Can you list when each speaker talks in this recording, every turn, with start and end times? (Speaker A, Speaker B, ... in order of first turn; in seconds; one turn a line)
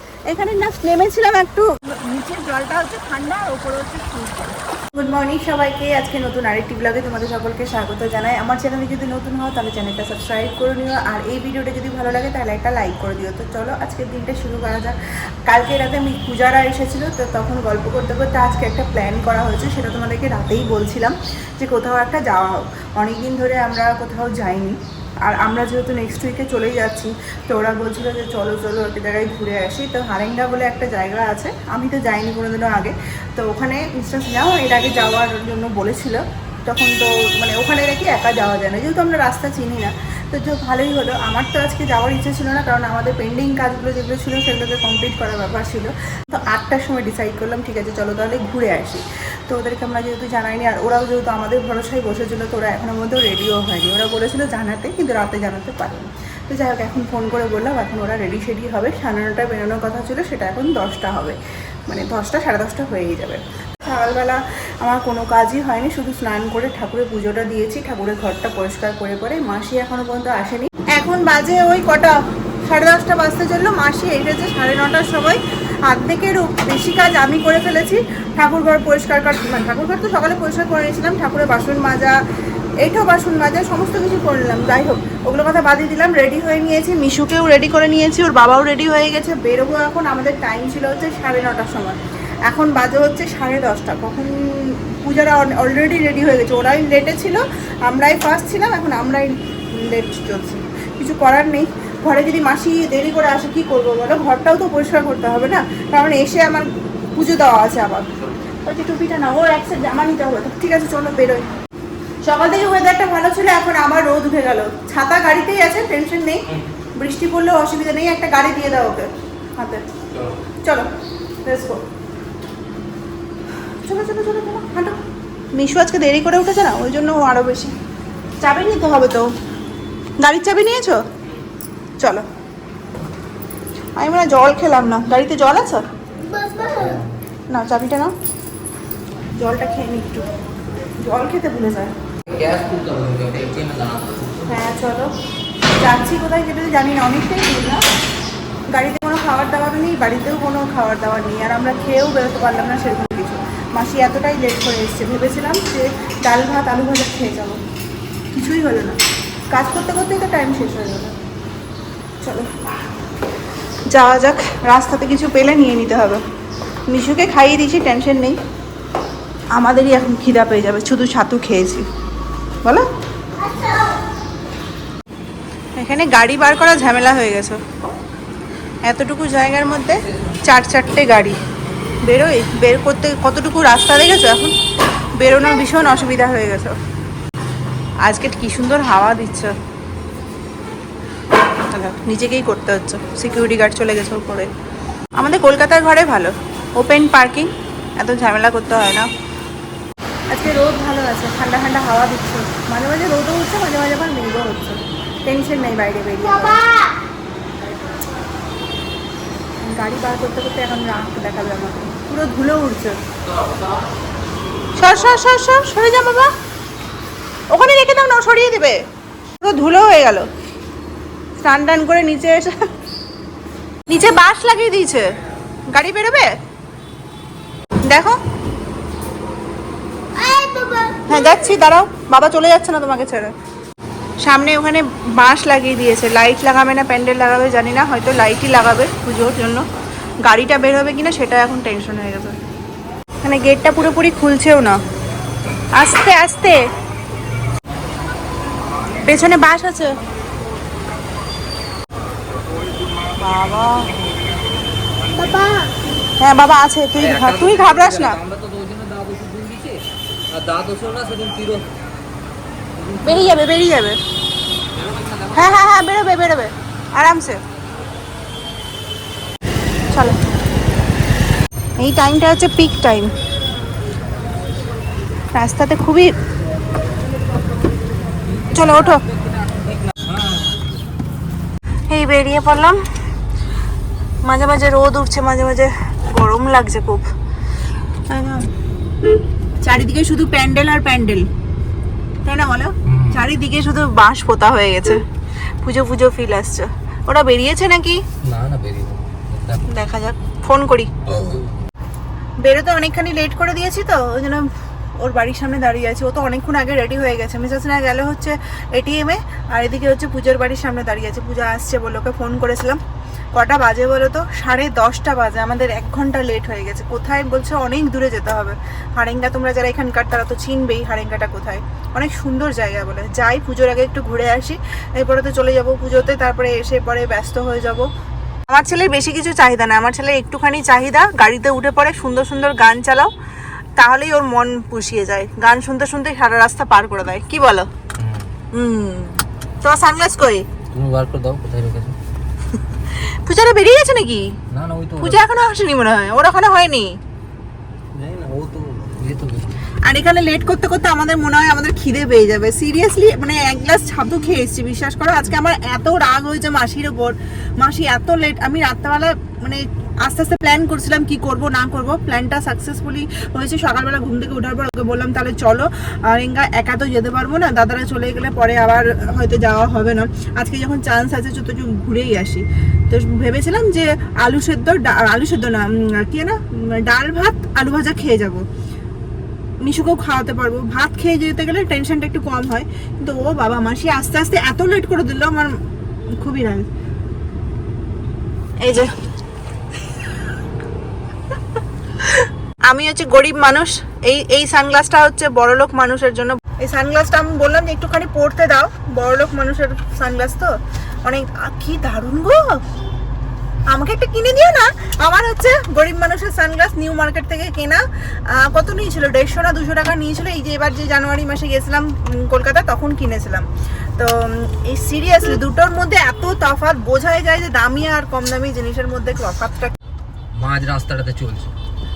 Speaker A: 0.3-82.2
Speaker A: 82.8-108.1
Speaker A: 108.6-111.5
Speaker A: 112.2-116.4
Speaker A: 117.0-119.8
Speaker B: 120.1-120.4
Speaker A: 120.6-120.9
Speaker A: 121.5-121.8
Speaker A: 123.8-125.0
Speaker A: 125.5-127.7
Speaker A: 128.4-129.3
Speaker A: 130.2-131.1
Speaker A: 132.0-132.3
Speaker A: 134.0-135.9
Speaker B: 136.6-137.2
Speaker A: 137.5-138.1
Speaker A: 139.3-140.3
Speaker A: 141.0-141.9
Speaker B: 142.3-144.7
Speaker A: 144.5-145.1
Speaker A: 145.8-147.8
Speaker A: 148.7-157.6
Speaker A: 158.3-159.0
Speaker A: 159.5-161.2
Speaker A: 162.2-162.5
Speaker A: 163.9-166.2
Speaker A: 166.9-168.4
Speaker A: 169.6-171.9
Speaker A: 175.8-177.6
Speaker A: 178.8-181.4
Speaker A: 182.0-184.6
Speaker A: 185.2-186.8
Speaker A: 188.0-189.6
Speaker A: 191.6-194.5
Speaker A: 195.2-199.1
Speaker A: 200.3-206.7
Speaker A: 209.6-213.0
Speaker A: 214.8-216.3
Speaker A: 217.5-218.8
Speaker A: 219.4-220.3
Speaker A: 221.4-222.7
Speaker A: 223.9-225.1
Speaker A: 225.7-226.3
Speaker A: 227.8-228.2
Speaker A: 230.9-233.3
Speaker A: 234.2-239.7
Speaker A: 240.2-242.4
Speaker A: 243.2-244.8
Speaker A: 245.7-246.7
Speaker A: 249.0-250.0
Speaker A: 253.2-253.9
Speaker A: 255.1-258.2
Speaker B: 257.0-261.7
Speaker B: 262.7-263.4
Speaker A: 263.0-264.0
Speaker B: 264.7-265.6
Speaker A: 265.3-267.4
Speaker A: 269.9-270.2
Speaker A: 271.8-273.1
Speaker A: 275.4-276.1
Speaker B: 278.3-280.6
Speaker A: 278.5-279.0
Speaker A: 281.9-282.8
Speaker A: 284.2-287.1
Speaker A: 288.1-288.5
Speaker A: 289.6-291.3
Speaker A: 292.2-295.0
Speaker B: 292.9-293.3
Speaker A: 295.6-298.0
Speaker B: 298.2-299.7
Speaker A: 299.7-301.0
Speaker B: 301.1-301.7
Speaker A: 302.4-312.8
Speaker A: 313.4-327.9
Speaker A: 328.5-333.1
Speaker A: 333.8-337.7
Speaker B: 337.9-338.3
Speaker A: 338.5-340.5
Speaker B: 340.7-342.0
Speaker A: 342.9-344.3
Speaker B: 344.5-345.2
Speaker A: 345.0-347.0
Speaker B: 347.9-349.7
Speaker A: 349.8-378.4
Speaker A: 379.6-385.5
Speaker A: 386.2-386.7
Speaker A: 388.6-388.9
Speaker A: 392.0-400.5
Speaker A: 401.1-402.6
Speaker A: 403.7-419.7
Speaker B: 420.3-421.5